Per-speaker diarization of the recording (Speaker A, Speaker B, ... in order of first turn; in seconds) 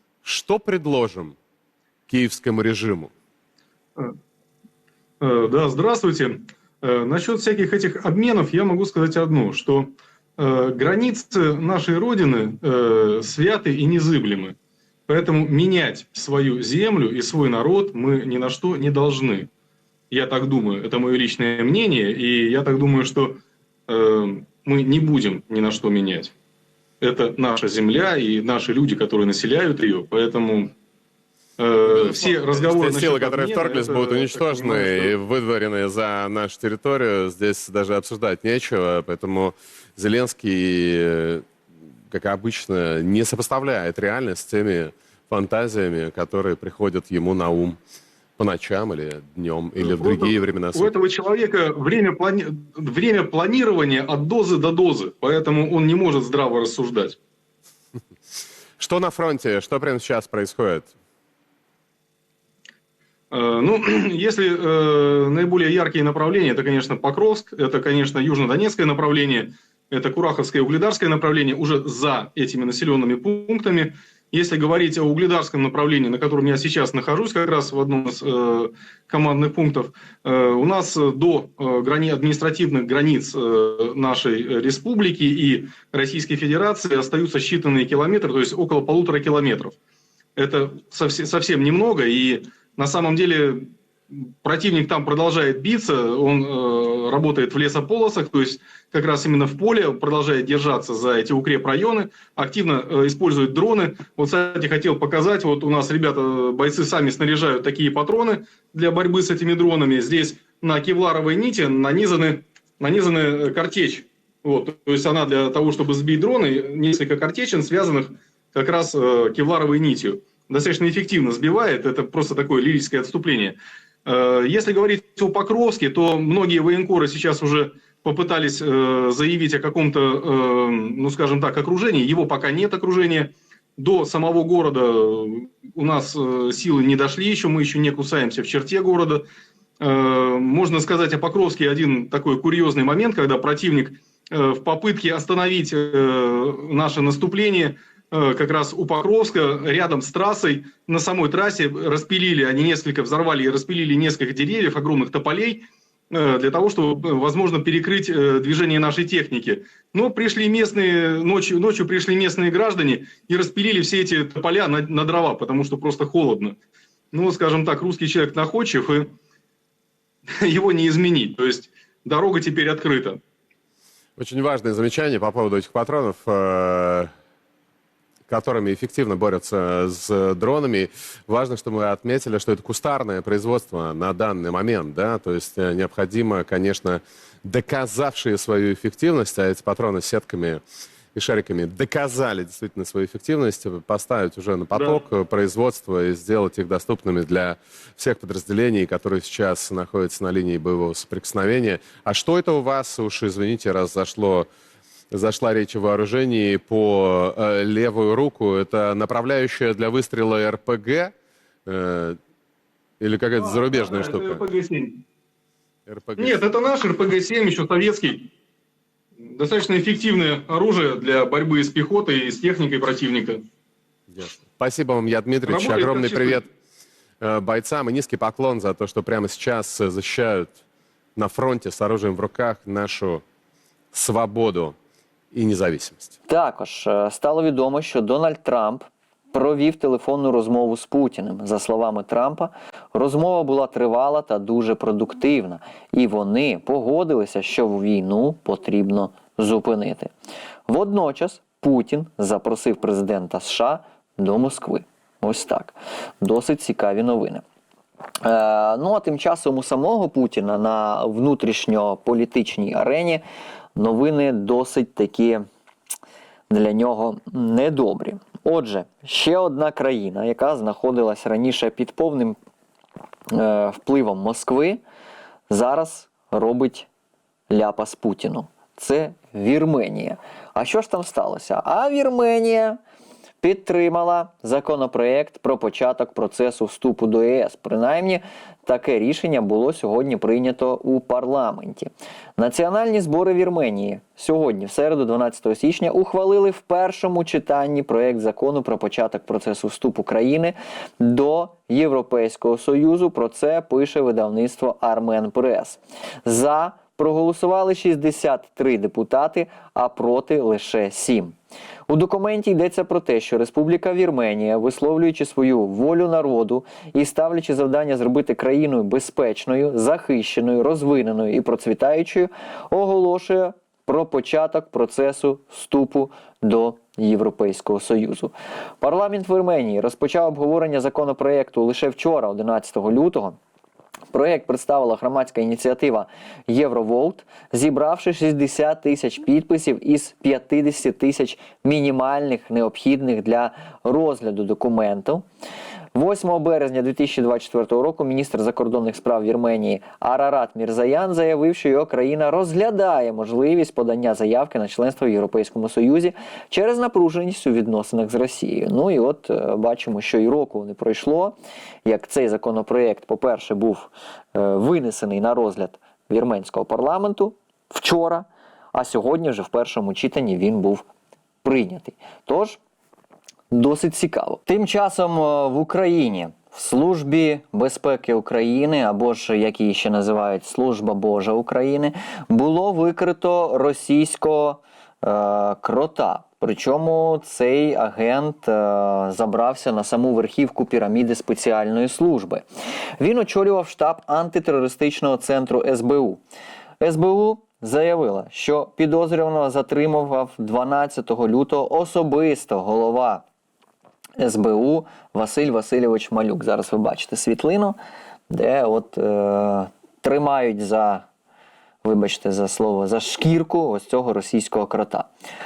Speaker A: 0.2-1.4, 2.1-3.1, 31.9-41.5, 42.1-47.8, 48.4-50.9, 58.8-60.9, 174.2-177.1, 178.3-190.6, 191.1-204.5, 205.1-211.1, 211.7-212.2, 213.0-214.4, 215.9-216.4, 224.1-226.5, 227.2-230.6, 231.2-233.2, 233.9-234.8, 235.3-236.1
Speaker B: 5.2-14.6, 15.1-19.5, 20.1-26.3, 27.0-30.7, 31.6-35.2, 49.8-57.2, 63.3-89.8, 90.4-139.3, 139.8-166.6, 167.1-169.1, 170.4-173.2, 194.7-195.0, 213.4-215.0, 216.2-218.3, 219.2-223.4, 225.5-226.5
Speaker C: 236.3-250.1, 250.7-257.4, 258.2-263.2, 263.8-265.4, 266.5-272.4, 273.3-274.8, 275.5-276.9, 277.5-282.8, 283.4-311.4, 311.9-333.4, 334.1-345.2, 345.9-370.9, 371.4-372.6, 373.5-392.4, 393.0-396.2, 396.8-403.2, 404.2-407.8, 408.3-411.1, 411.8-415.1